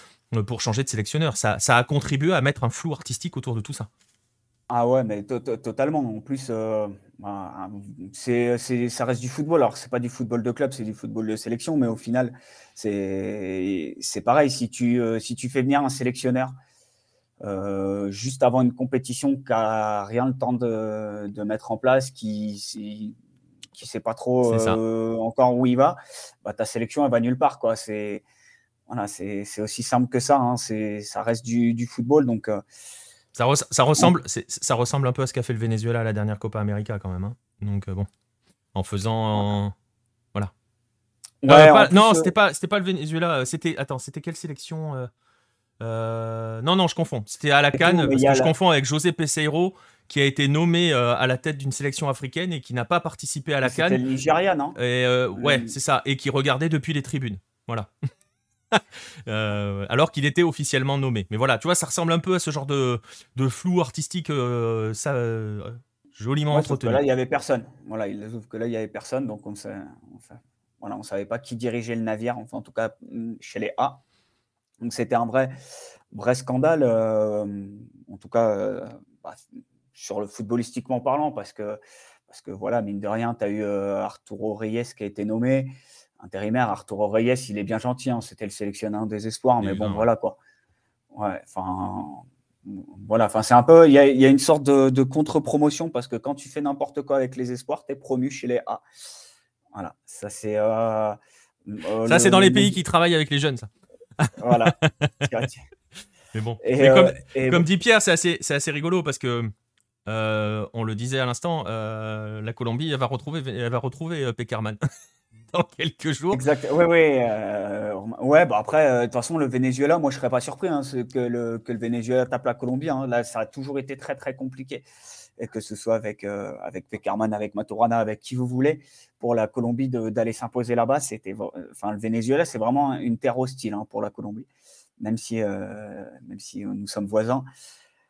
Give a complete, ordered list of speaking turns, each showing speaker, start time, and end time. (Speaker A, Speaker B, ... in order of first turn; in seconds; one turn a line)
Speaker A: 0.3-3.9
Speaker B: 4.7-16.6
Speaker B: 17.4-23.2
Speaker B: 23.7-28.2
Speaker A: 24.4-24.8
Speaker B: 28.9-32.6
Speaker A: 33.3-38.1
Speaker A: 38.7-39.7
Speaker B: 41.4-42.3
Speaker A: 41.5-45.1
Speaker A: 45.8-54.0
Speaker B: 47.7-48.5
Speaker B: 53.6-54.8
Speaker A: 54.8-57.9
Speaker B: 55.3-55.7
Speaker A: 58.7-67.0
Speaker B: 66.5-74.0
Speaker B: 74.8-75.5
Speaker B: 76.1-79.4
Speaker B: 79.9-90.4
Speaker A: 89.6-90.1
Speaker B: 91.1-98.8
Speaker B: 99.7-102.8
Speaker A: 102.0-105.3
Speaker B: 104.4-105.6
Speaker A: 106.3-109.5
Speaker B: 106.6-107.7
Speaker A: 110.1-114.8
Speaker A: 115.5-116.4
Speaker B: 116.3-124.8
Speaker B: 125.4-134.4
Speaker B: 135.0-137.5